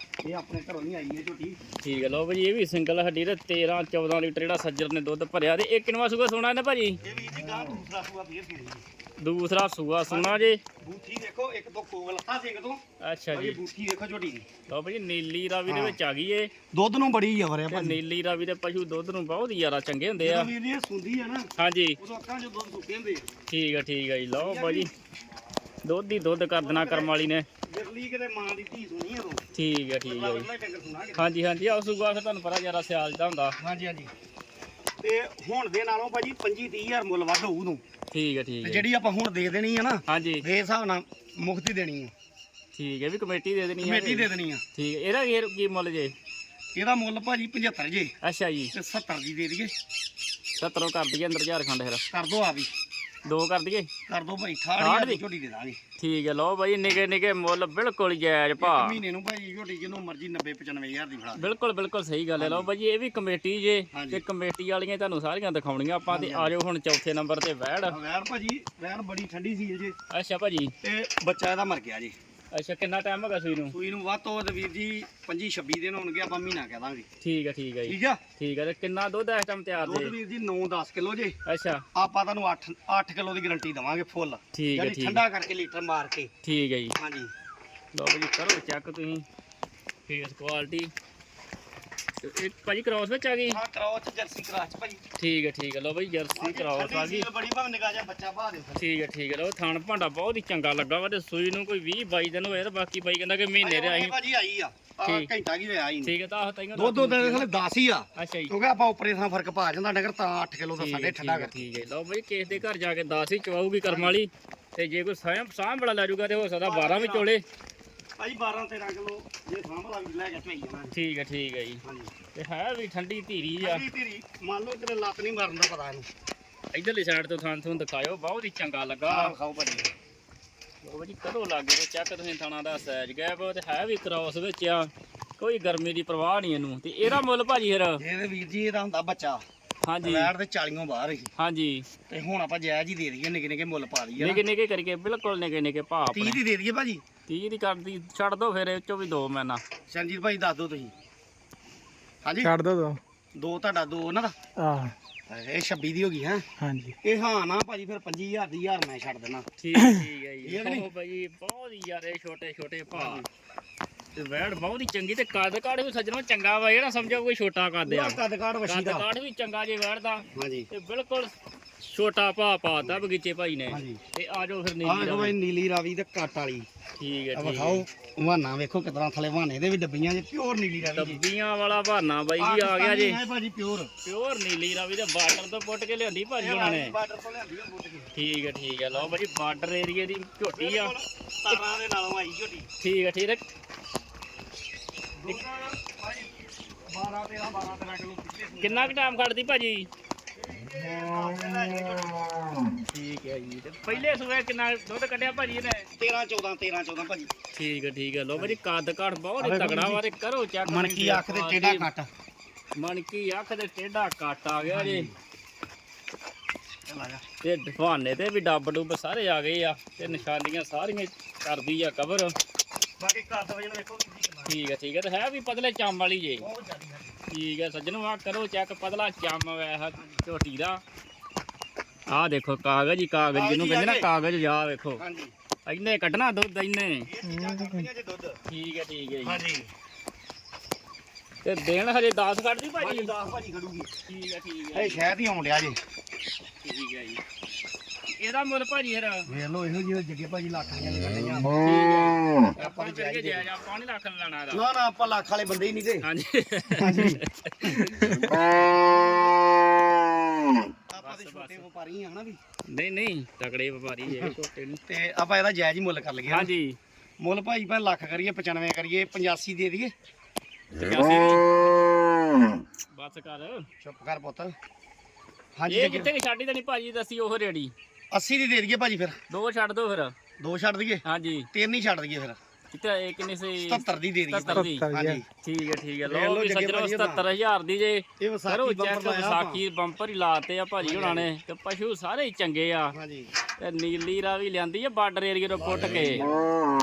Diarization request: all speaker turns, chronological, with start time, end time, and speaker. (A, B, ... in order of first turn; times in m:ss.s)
0:00.2-0:01.6 A
0:01.8-0:07.0 B
0:07.0-0:08.8 A
0:09.2-0:10.6 B
0:10.1-0:14.5 A
0:13.0-0:13.6 B
0:14.7-0:16.5 B
0:15.7-0:16.0 A
0:16.7-0:18.0 A
0:17.7-0:20.5 B
0:20.2-0:23.3 A
0:21.6-0:22.0 B
0:23.5-0:24.9 B
0:24.4-0:24.9 A
0:25.8-0:27.5 B
0:26.6-0:27.2 A
0:27.7-0:29.4 A
0:29.5-0:30.5 B
0:30.1-0:31.3 A
0:31.2-0:33.6 B
0:33.6-0:34.1 A
0:35.0-0:37.8 A
0:38.1-0:38.9 B
0:38.6-0:42.1 A
0:40.1-0:40.4 B
0:42.8-0:46.1 B
0:43.8-0:44.6 A
0:46.8-0:48.1 A
0:48.2-0:48.7 B
0:48.7-0:49.7 A
0:50.6-0:52.0 B
0:52.1-0:52.7 A
0:53.3-0:53.9 B
0:54.1-0:55.8 A
0:54.8-0:55.2 B
0:56.0-0:59.0 B
0:58.6-1:01.5 A
1:01.4-1:08.0 B
1:02.4-1:02.7 A
1:03.9-1:04.2 A
1:06.1-1:06.5 A
1:07.9-1:10.0 A
1:10.1-1:10.7 B
1:10.8-1:12.2 A
1:12.5-1:13.8 B
1:13.7-1:17.1 A
1:17.2-1:20.1 B
1:17.9-1:18.2 A
1:19.8-1:21.4 A
1:21.5-1:21.8 B
1:22.0-1:26.3 A
1:24.5-1:25.2 B
1:26.4-1:27.0 B
1:27.0-1:27.3 A
1:27.9-1:29.2 B
1:30.1-1:30.9 B
1:32.2-1:33.6 B
1:33.5-1:35.0 A
1:35.2-1:37.3 B
1:36.3-1:38.9 A
1:38.8-1:44.2 B
1:43.6-1:46.1 A
1:45.0-1:45.3 B
1:46.0-1:47.5 B
1:46.8-1:51.7 A
1:48.2-1:48.5 B
1:50.8-1:57.4 B
1:53.8-1:54.2 A
1:56.6-1:57.3 A
1:58.2-2:00.9 A
2:00.9-2:01.8 B
2:01.8-2:02.1 A
2:02.4-2:03.8 B
2:03.6-2:06.1 A
2:06.7-2:09.3 B
2:09.1-2:09.9 A
2:10.8-2:18.0 B
2:18.0-2:19.4 A
2:19.8-2:20.3 B
2:20.0-2:21.3 A
2:21.4-2:21.9 B
2:22.1-2:24.4 A
2:24.2-2:26.4 B
2:26.1-2:27.0 A
2:27.3-2:29.6 B
2:29.9-2:30.9 A
2:32.2-2:32.5 A
2:32.4-2:33.0 C
2:33.4-2:34.4 A
2:34.6-2:34.9 C
2:35.3-2:36.5 A
2:36.6-2:37.0 C
2:37.0-2:39.4 A
2:39.6-2:43.2 B
2:39.8-2:40.1 C
2:40.4-2:40.9 A
2:42.9-2:43.3 A
2:44.2-2:55.4 B
2:47.9-2:49.1 A
2:50.3-2:50.7 A
2:53.7-2:54.0 A
2:54.8-2:56.7 A
2:57.0-2:57.8 B
2:57.4-3:01.2 A
3:00.8-3:03.2 B
3:02.4-3:03.9 A
3:04.0-3:07.0 B
3:06.4-3:08.1 A
3:08.2-3:11.0 B
3:10.5-3:12.7 A
3:12.8-3:13.4 B
3:15.2-3:19.1 A
3:18.6-3:19.9 B
3:20.4-3:22.3 A
3:22.9-3:25.9 B
3:23.9-3:24.1 A
3:26.0-3:27.3 A
3:27.5-3:31.9 B
3:29.4-3:30.0 A
3:30.6-3:32.1 A
3:32.8-3:35.1 B
3:34.7-3:35.2 A
3:36.9-3:37.2 A
3:37.4-3:42.3 B
3:40.0-3:40.3 A
3:43.0-3:44.6 A
3:44.5-3:46.4 B
3:46.4-3:47.2 A
3:47.3-3:50.8 B
3:50.0-3:50.2 A
3:52.1-3:55.0 B
3:53.3-3:54.1 A
3:55.0-3:55.3 A
3:55.7-3:57.1 B
3:57.0-3:58.4 A
3:57.2-3:57.8 C
3:58.5-3:59.4 B
3:59.2-3:59.7 A
4:01.4-4:03.1 B
4:02.8-4:03.9 A
4:04.1-4:05.1 B
4:04.7-4:05.8 A
4:06.6-4:07.2 B
4:08.1-4:09.3 B
4:09.3-4:11.5 A
4:11.6-4:14.6 B
4:12.6-4:13.5 A
4:14.5-4:16.1 A
4:16.0-4:18.6 B
4:16.8-4:19.3 A
4:18.1-4:18.4 C
4:20.9-4:22.4 A
4:21.0-4:21.6 B
4:22.7-4:24.8 B
4:24.9-4:26.5 A
4:26.3-4:26.8 B
4:27.2-4:29.9 A
4:30.8-4:31.4 B
4:31.5-4:31.9 A
4:32.9-4:33.7 B
4:33.8-4:34.6 A
4:35.6-4:36.1 A
4:35.7-4:37.7 B
4:38.1-4:39.2 A
4:39.3-4:40.1 B
4:40.4-4:42.4 A
4:41.0-4:41.5 B
4:42.7-4:44.9 B
4:43.6-4:45.2 A
4:44.5-4:45.2 C
4:45.4-4:53.0 B
4:46.0-4:47.3 A
4:48.2-4:49.6 A
4:50.8-4:51.3 A
4:52.9-4:53.3 A
4:53.6-4:56.3 B
4:55.6-4:56.5 A